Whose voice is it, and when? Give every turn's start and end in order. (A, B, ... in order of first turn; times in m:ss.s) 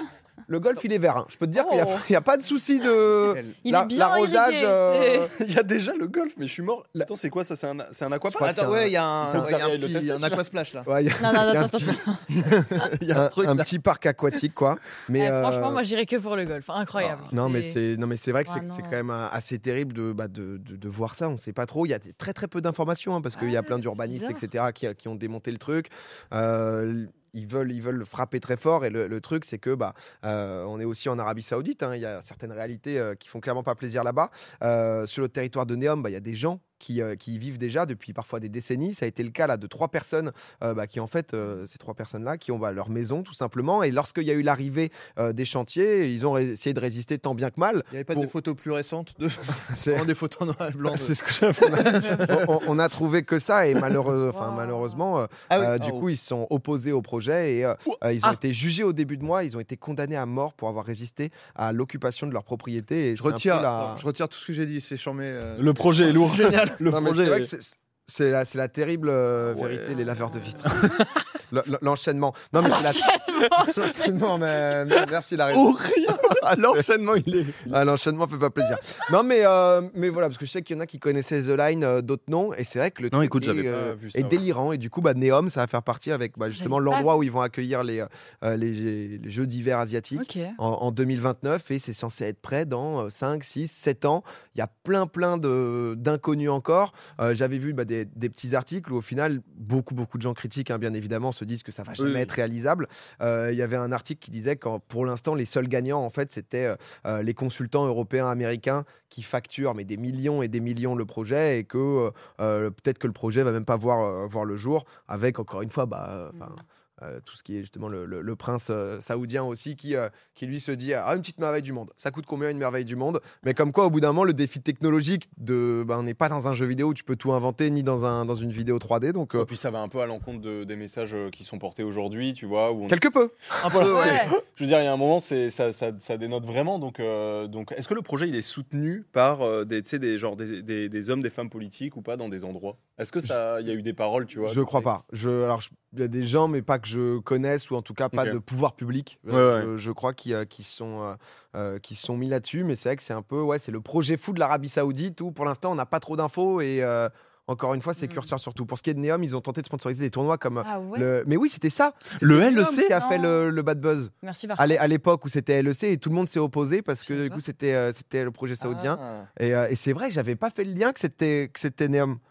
0:00.5-0:05.3 A
0:01.5-0:02.0 B
0:03.3-0:03.6 C
0:03.6-0:05.3 B
0:05.4-0:10.5 D
0:08.3-0:09.5 A
0:08.4-0:10.9 C
0:10.9-0:12.0 A
0:11.2-0:12.9 B
0:12.3-0:13.7 C
0:13.1-0:15.8 A
0:15.2-0:17.8 B
0:17.0-0:17.3 D
0:17.3-0:48.3 A
0:18.5-0:19.0 B
0:23.3-0:24.4 B
0:47.9-0:52.5 C
0:49.7-0:50.1 A
0:50.9-1:04.0 A
0:54.3-0:55.0 B
0:55.5-0:56.0 C
0:57.9-0:58.4 D
1:03.2-1:06.8 C
1:05.6-1:07.5 D
1:06.8-1:16.9 A
1:09.4-1:10.0 D
1:10.2-1:11.0 B
1:10.6-1:10.9 D
1:12.6-1:13.9 B
1:14.9-1:17.8 D
1:17.7-2:09.5 A
1:23.1-1:24.4 D
1:26.5-1:27.1 B
1:30.2-1:30.6 B
1:42.0-1:42.3 D
2:09.4-2:24.9 D
2:12.9-2:13.4 A
2:13.6-2:14.4 C
2:13.9-2:14.3 B
2:24.4-2:52.2 A
2:28.1-2:28.4 D
2:29.3-2:29.7 D
2:40.6-2:41.1 B
2:42.3-2:43.4 B
2:44.2-2:44.9 B
2:47.1-2:47.4 B
2:48.6-2:49.3 C